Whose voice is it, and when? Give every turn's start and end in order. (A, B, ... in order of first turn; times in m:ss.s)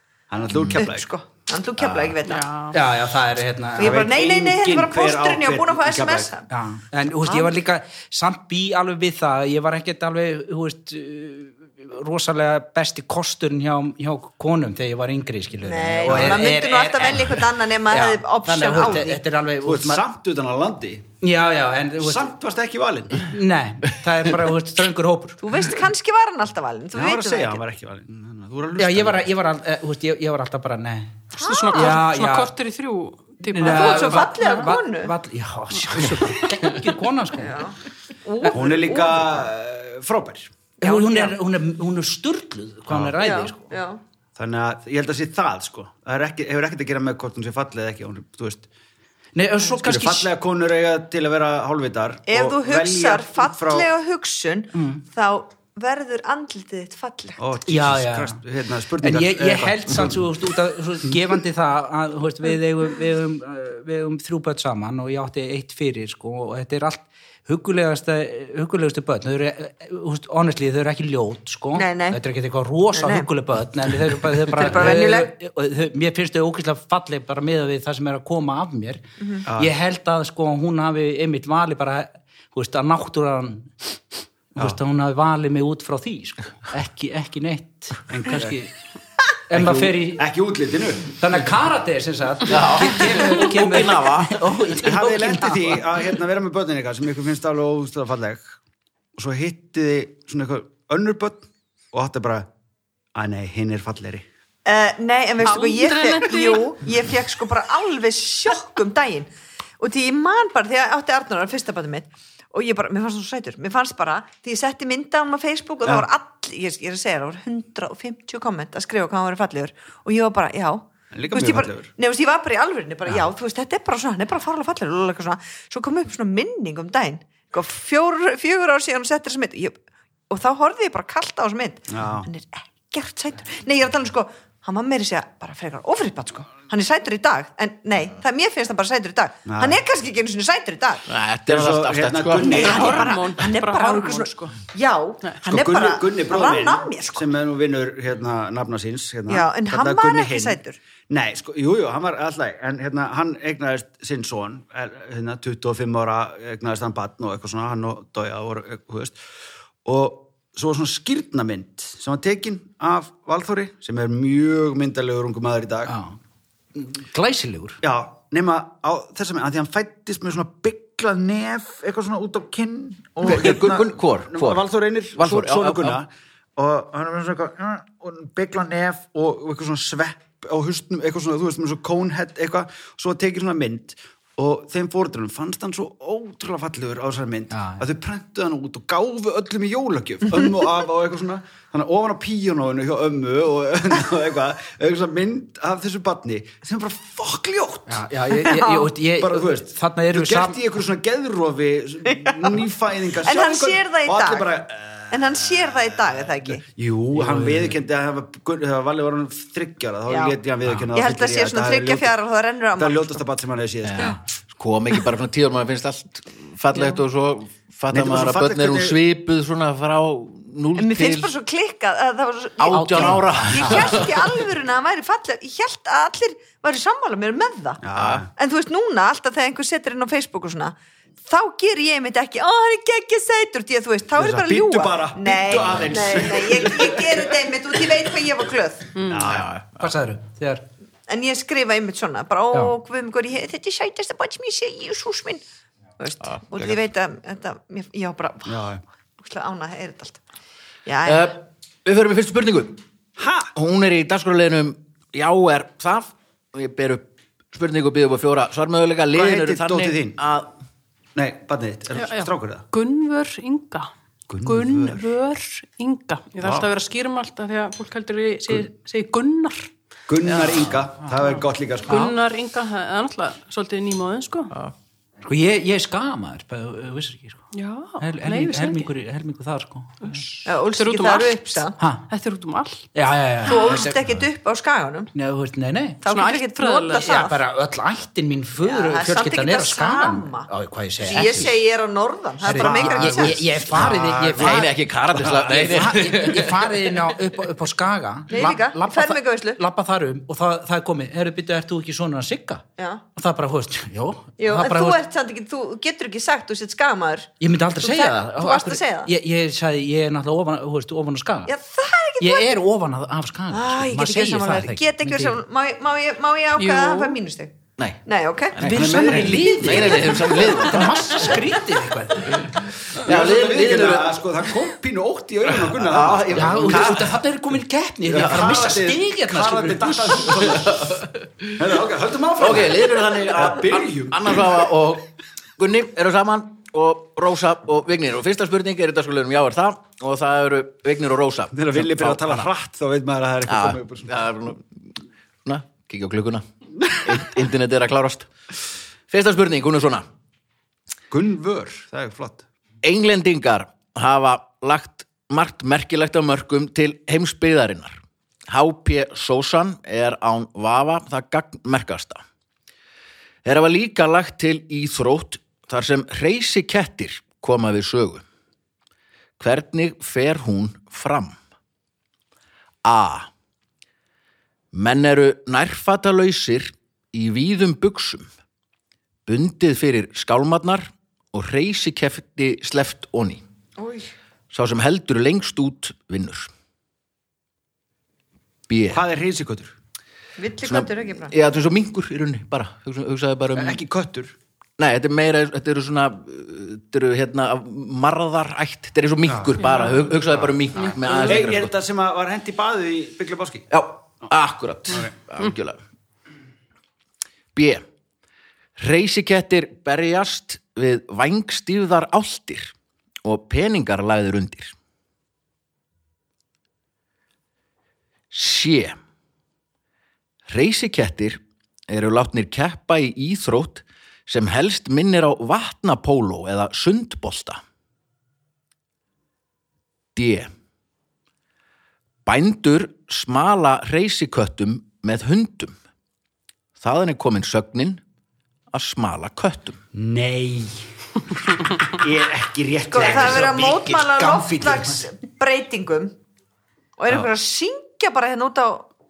0:00.3-0:01.1 A
0:00.7-0:02.5 B
0:02.2-0:02.7 C
0:02.7-0:04.1 D
0:03.8-0:06.3 A
0:03.8-0:06.5 B
0:06.5-0:20.0 D
0:07.2-0:07.5 B
0:15.6-0:19.2 B
0:16.1-0:16.4 A
0:19.6-0:21.1 A
0:21.2-0:22.3 D
0:22.0-0:23.3 A
0:23.2-0:25.4 D
0:25.4-0:27.6 B
0:26.9-0:29.3 A
0:28.8-0:32.5 D
0:31.3-0:32.0 B
0:31.4-0:34.3 C
0:33.4-0:37.7 D
0:33.6-0:35.1 B
0:37.4-0:39.3 B
0:38.5-0:40.5 A
0:40.8-0:43.7 D
0:40.8-0:41.4 B
0:42.9-0:43.1 A
0:43.2-0:44.0 B
0:44.4-0:48.7 A
0:49.3-0:50.3 D
0:49.7-0:53.9 A
0:52.3-0:57.4 B
0:54.7-0:55.0 D
0:57.4-1:00.2 A
0:57.7-0:58.4 D
0:59.0-1:19.0 D
1:11.8-1:12.2 B
1:12.9-1:13.3 B
1:14.5-1:15.3 B
1:19.2-1:19.4 B
1:19.4-1:19.7 A
1:19.5-1:23.7 D
1:24.5-1:28.7 D
1:28.1-1:28.6 A
1:29.5-1:30.2 D
1:29.5-1:31.2 A
1:31.1-1:35.8 D
1:32.5-1:34.4 E
1:34.8-1:38.6 A
1:39.2-1:42.5 A
1:43.1-1:44.2 A
1:44.6-2:09.8 B
1:45.4-1:46.7 C
2:01.1-2:01.9 A
2:10.3-2:21.1 B
2:11.9-2:12.3 A
2:19.5-2:19.8 A
2:21.1-2:22.9 E
2:21.4-2:23.1 A
2:22.4-2:27.3 B
2:22.4-2:24.6 C
2:25.4-2:39.2 A
2:29.3-2:30.8 B
2:39.8-2:45.9 A
2:45.9-2:46.2 D
2:46.7-2:47.8 D
2:47.8-3:18.1 A
2:53.2-2:54.6 E
2:55.1-2:56.0 E
3:07.5-3:07.8 D
3:17.9-3:20.6 D
3:18.4-3:18.9 B
3:19.2-3:25.8 A
3:22.1-3:22.6 B
3:23.2-3:24.5 B
3:25.1-3:26.6 B
3:26.6-3:32.1 A
3:30.1-3:30.4 B
3:30.9-3:33.2 B
3:32.8-3:34.2 A
3:33.8-3:41.3 E
3:37.9-3:39.0 A
3:40.7-3:59.0 B
3:42.6-3:44.3 E
3:42.7-3:44.1 D
3:47.8-3:48.3 A
3:48.0-3:48.2 E
3:54.1-3:57.3 A
3:58.9-3:59.3 C
3:59.1-3:59.5 A
3:59.2-3:59.9 E
3:59.8-4:00.6 D
4:01.1-4:05.4 B
4:06.0-4:08.6 B
4:06.3-4:06.7 E
4:08.4-4:08.8 A
4:09.2-4:10.2 B
4:10.8-4:11.3 B
4:11.0-4:12.8 E
4:13.2-4:13.5 A
4:13.5-4:20.5 E
4:19.1-4:20.2 A
4:21.1-4:22.6 A
4:21.9-4:23.9 C
4:24.3-4:25.1 A
4:24.4-4:29.7 C
4:26.4-4:26.7 A
4:30.1-4:32.1 A
4:31.2-4:34.5 C
4:35.2-4:37.4 D
4:37.5-4:38.9 C
4:38.0-4:40.2 D
4:40.0-4:42.9 C
4:40.4-4:41.8 B
4:41.8-4:42.0 D
4:42.9-4:43.9 D
4:43.4-4:45.1 B
4:45.1-4:46.0 D
4:46.0-4:47.4 B
4:46.1-4:47.2 C
4:47.0-4:51.6 D
4:48.6-4:50.5 B
4:51.0-4:53.6 B
4:52.4-4:54.8 D
4:52.4-4:55.8 A
4:54.3-4:56.7 E
4:55.4-5:02.6 D
4:58.3-4:59.6 B
5:02.8-5:03.0 B
5:03.1-5:05.0 D
5:04.4-5:09.1 B
5:07.4-5:11.5 D
5:11.5-5:12.5 B
5:12.2-5:15.4 D
5:13.5-5:20.2 B
5:16.6-5:17.2 C
5:18.6-5:21.4 E
5:18.6-5:22.6 D
5:18.6-5:19.6 A
5:22.3-5:24.2 E
5:23.0-5:27.0 A
5:25.6-5:27.2 E
5:26.3-5:30.6 D
5:28.1-5:31.0 A
5:28.1-5:28.4 E
5:30.4-5:31.6 E
5:31.6-5:34.6 A
5:32.4-5:42.5 E
5:41.5-5:44.1 A
5:43.5-5:44.9 E
5:45.4-5:46.4 E
5:47.0-5:48.3 E
5:49.1-5:50.0 E
5:51.1-5:52.4 A
5:52.8-6:02.2 E
6:03.4-6:08.2 E
6:09.4-6:11.4 E
6:12.8-6:13.3 E
6:14.7-6:18.3 E
6:19.2-6:23.4 E
6:23.8-6:24.1 B
6:24.5-6:26.5 E
6:28.7-6:29.0 E
6:28.9-6:29.7 A
6:30.4-6:31.3 B
6:30.6-6:33.8 E
6:33.5-6:34.4 A
6:34.8-6:41.7 E
6:39.3-6:39.6 A
6:39.6-6:39.9 C
6:40.3-6:43.7 A
6:43.7-6:45.8 E
6:47.5-6:47.8 E
6:48.8-6:54.7 E
6:58.3-6:59.0 E
7:00.5-7:07.6 E
7:10.1-7:10.5 E
7:12.2-7:15.7 E
7:16.8-7:18.0 E
7:18.7-7:19.8 E
7:19.9-7:20.9 A
7:21.8-7:23.8 A
7:22.9-7:26.1 B
7:23.2-7:25.1 D
7:27.0-7:28.9 B